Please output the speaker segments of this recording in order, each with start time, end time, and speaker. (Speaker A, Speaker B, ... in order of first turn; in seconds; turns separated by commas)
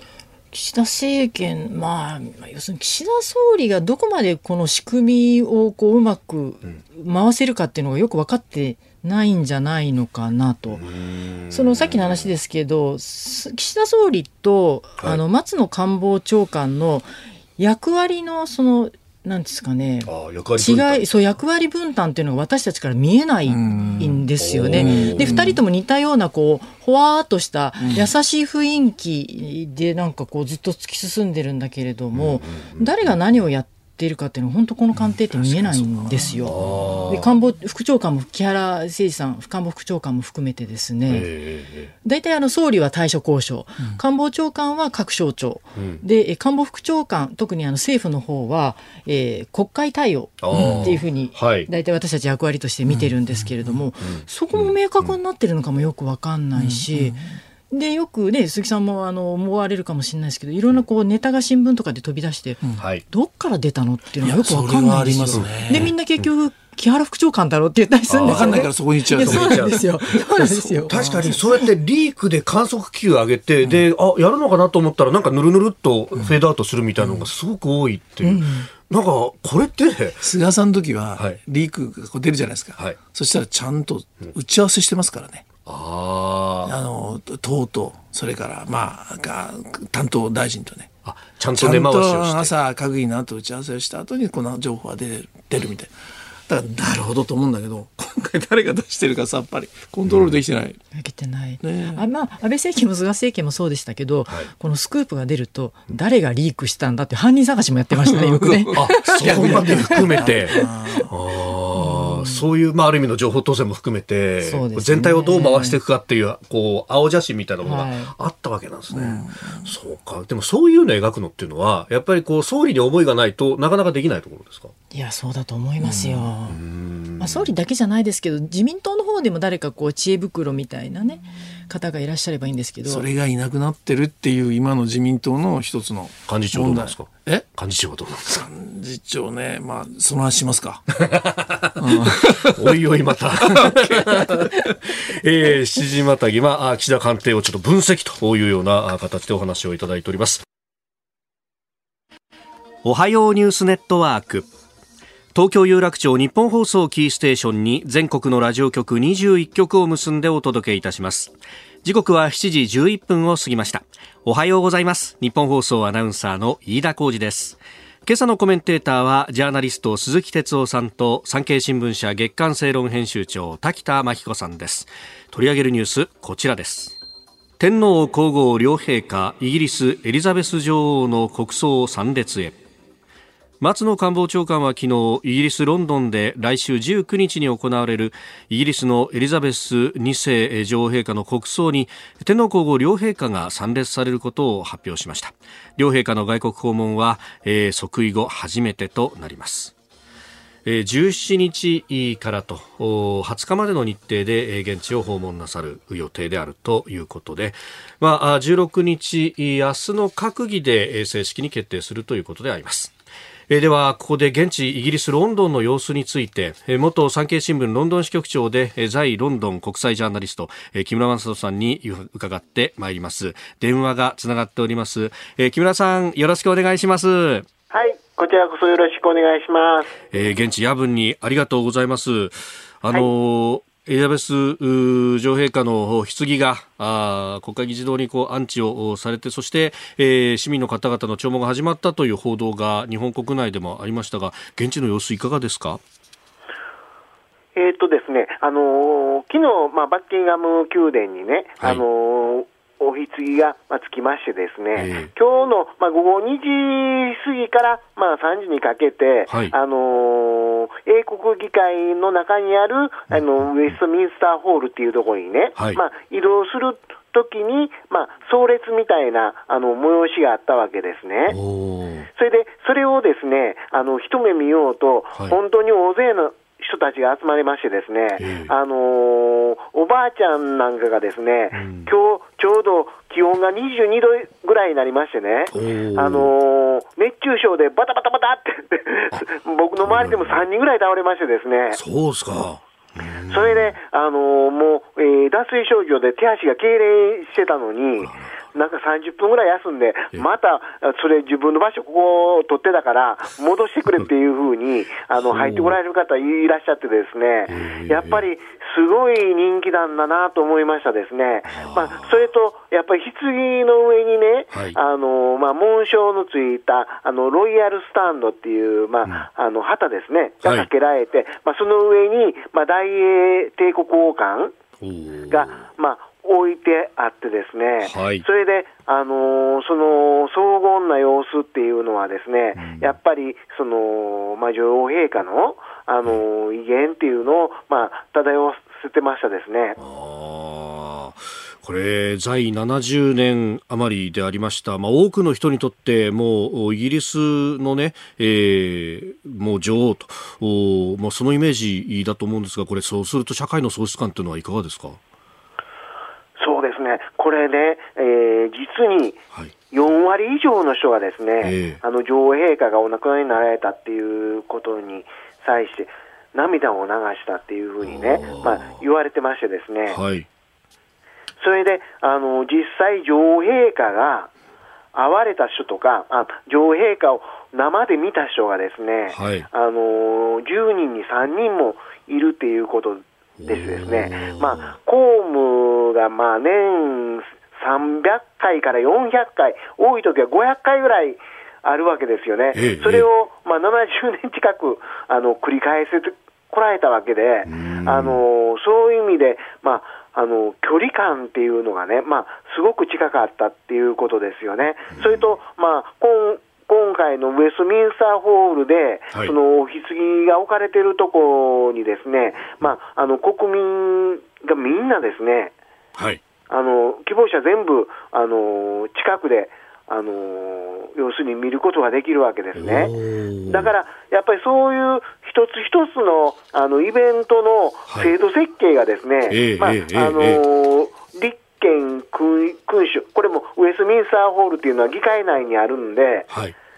Speaker A: 0.5-10.8, Speaker B: 10.7-12.3, Speaker A: 11.5-36.6, Speaker B: 20.1-21.1, Speaker C: 23.5-25.6, Speaker B: 24.4-25.5, Speaker C: 27.8-28.1, Speaker B: 32.1-33.1, Speaker C: 35.0-36.9, Speaker B: 36.4-37.3, Speaker A: 37.1-41.3, Speaker B: 41.1-41.9, Speaker A: 42.0-71.5, Speaker B: 45.8-46.0, Speaker B: 50.4-51.7, Speaker C: 50.5-51.0, Speaker C: 52.9-53.8, Speaker B: 54.0-55.1, Speaker C: 56.5-57.2, Speaker B: 62.8-63.0, Speaker C: 64.2-65.9, Speaker B: 65.4-66.2, Speaker B: 68.1-70.2, Speaker C: 68.2-71.3, Speaker B: 70.8-80.3, Speaker C: 77.0-77.3, Speaker A: 78.2-78.7, Speaker C: 80.2-85.5, Speaker B: 85.7-86.8, Speaker C: 86.7-90.9, Speaker B: 91.0-92.5, Speaker C: 91.6-95.9, Speaker C: 96.5-100.8, Speaker B: 100.1-100.4, Speaker A: 100.9-111.1, Speaker C: 101.6-102.0, Speaker B: 104.3-104.5, Speaker C: 108.0-111.1, Speaker B: 108.7-124.7, Speaker A: 111.8-112.4, Speaker A: 114.4-115.8, Speaker A: 117.6-118.1, Speaker C: 118.9-119.7, Speaker A: 124.9-126.6, Speaker C: 125.8-126.3, Speaker B: 126.5-127.5, Speaker A: 127.2-133.1, Speaker C: 132.8-137.5, Speaker B: 136.3-138.4, Speaker C: 138.2-140.9, Speaker B: 140.9-150.4, Speaker C: 141.8-142.8, Speaker C: 143.4-144.4, Speaker B: 152.8-154.5, Speaker B: 155.3-177.0, Speaker B: 177.6-182.6, Speaker B: 183.6-199.7, Speaker B: 200.7-212.9, Speaker B: 213.5-227.5, Speaker D: 227.7-229.9, Speaker B: 230.1-245.8, Speaker D: 247.6-271.4, Speaker B: 254.8-255.1, Speaker B: 259.3-259.5, Speaker B: 265.6-265.8, Speaker B: 271.3-272.1, Speaker D: 272.2-291.8, Speaker B: 278.2-278.5, Speaker B: 281.5-281.9, Speaker B: 285.5-286.3, Speaker B: 289.8-290.4, Speaker B: 291.7-293.8, Speaker D: 293.3-324.5, Speaker B: 298.0-298.4, Speaker B: 305.2-305.8, Speaker B: 307.5-308.2, Speaker B: 311.4-312.2, Speaker B: 314.5-314.8, Speaker B: 320.4-320.7, Speaker B: 324.8-325.7, Speaker D: 325.3-339.8, Speaker B: 327.8-328.2, Speaker B: 332.6-332.9, Speaker B: 339.8-355.0, Speaker D: 356.4-359.2, Speaker D: 359.7-370.0, Speaker B: 361.4-361.8, Speaker B: 367.8-368.8, Speaker B: 369.9-370.3, Speaker D: 371.4-374.3, Speaker D: 374.9-415.5, Speaker B: 379.1-379.5, Speaker B: 383.4-384.8, Speaker B: 392.5-393.1, Speaker B: 397.5-398.2, Speaker B: 404.9-405.4, Speaker B: 416.0-416.2, Speaker D: 416.5-422.9, Speaker B: 422.5-423.7, Speaker D: 423.5-436.3, Speaker B: 429.3-430.4, Speaker B: 436.3-436.6